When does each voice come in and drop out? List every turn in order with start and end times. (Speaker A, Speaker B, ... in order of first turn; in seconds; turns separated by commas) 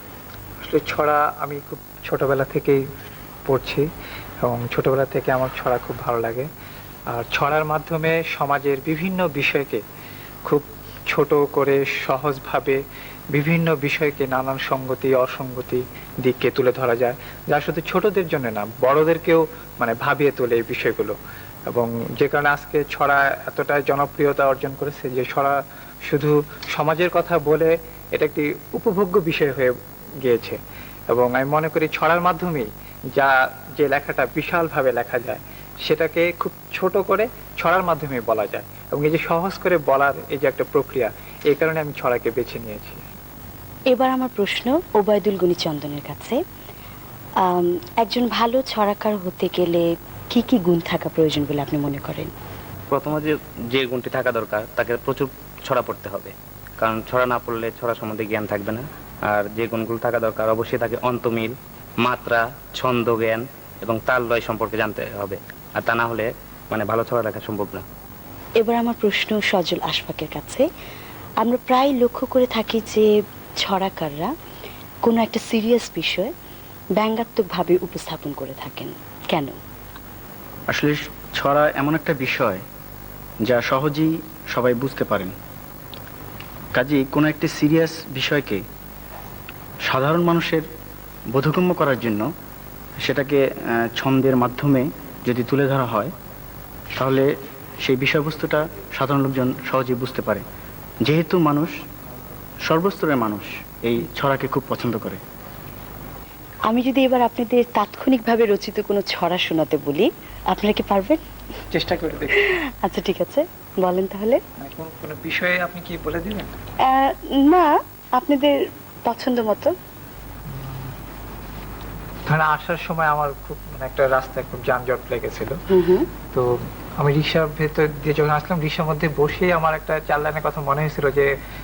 Speaker A: 0.6-2.8, Speaker A: 3.5-3.9, Speaker A: 4.4-6.5, Speaker A: 7.1-9.8, Speaker A: 10.5-12.8, Speaker A: 13.3-21.2, Speaker A: 21.7-30.6, Speaker A: 31.1-43.0, Speaker B: 43.9-46.4, Speaker B: 47.4-52.3, Speaker C: 52.9-67.8, Speaker B: 68.6-70.7, Speaker B: 71.4-73.1, Speaker B: 73.6-74.3, Speaker B: 75.0-76.3, Speaker B: 77.0-79.5, Speaker D: 80.7-82.6, Speaker D: 83.5-85.3, Speaker D: 86.8-88.6, Speaker D: 89.9-90.7, Speaker D: 91.3-92.3, Speaker D: 93.0-96.1, Speaker D: 97.0-97.3, Speaker D: 97.8-100.5, Speaker D: 101.0-101.8, Speaker D: 102.7-105.2, Speaker B: 106.7-111.2, Speaker A: 111.7-112.4, Speaker B: 112.3-114.4, Speaker A: 114.6-116.5, Speaker B: 116.8-119.8, Speaker A: 120.5-120.9, Speaker A: 122.3-125.6, Speaker B: 125.7-126.1, Speaker A: 126.3-131.3